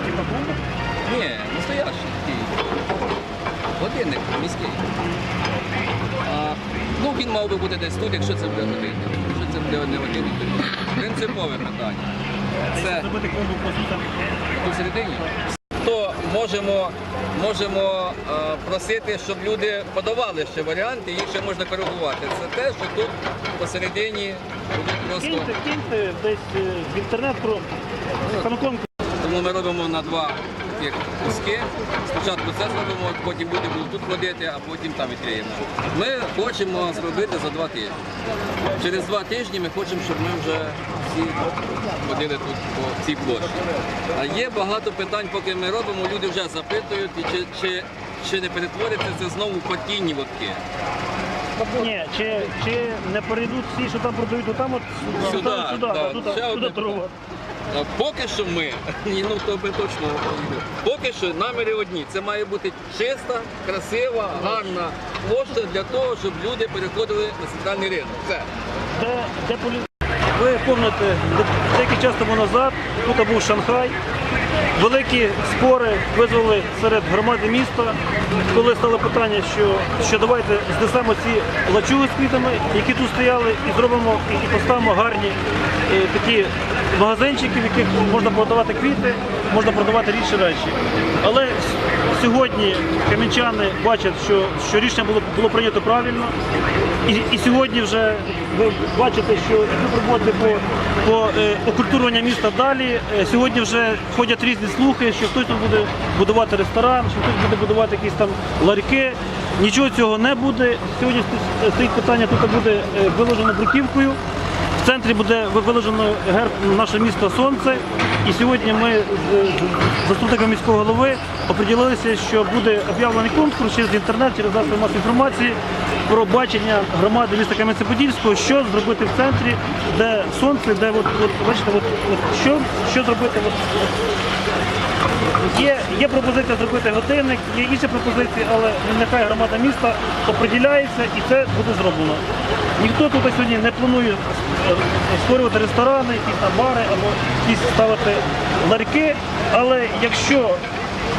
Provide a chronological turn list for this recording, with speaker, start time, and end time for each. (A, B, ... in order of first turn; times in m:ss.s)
0:00.2-0:00.5 A
0:01.0-0:02.6 B
0:03.8-0:04.8 B
0:06.2-0:12.1 B
0:12.7-0:13.1 B
0:12.7-0:14.1 A
0:14.5-0:25.5 B
0:25.2-0:27.7 A
0:28.2-0:28.5 B
0:28.4-0:28.9 A
0:29.2-0:38.0 B
0:38.8-0:50.6 B
0:51.7-0:57.1 A
0:55.0-0:57.0 B
0:57.7-1:08.5 B
1:09.0-1:13.9 A
1:14.8-1:18.0 A
1:18.5-1:25.4 A
1:25.9-1:31.6 A
1:32.1-1:36.3 A
1:37.1-1:54.2 A
1:54.8-2:13.8 A
2:15.5-2:22.2 A
2:22.8-2:30.6 A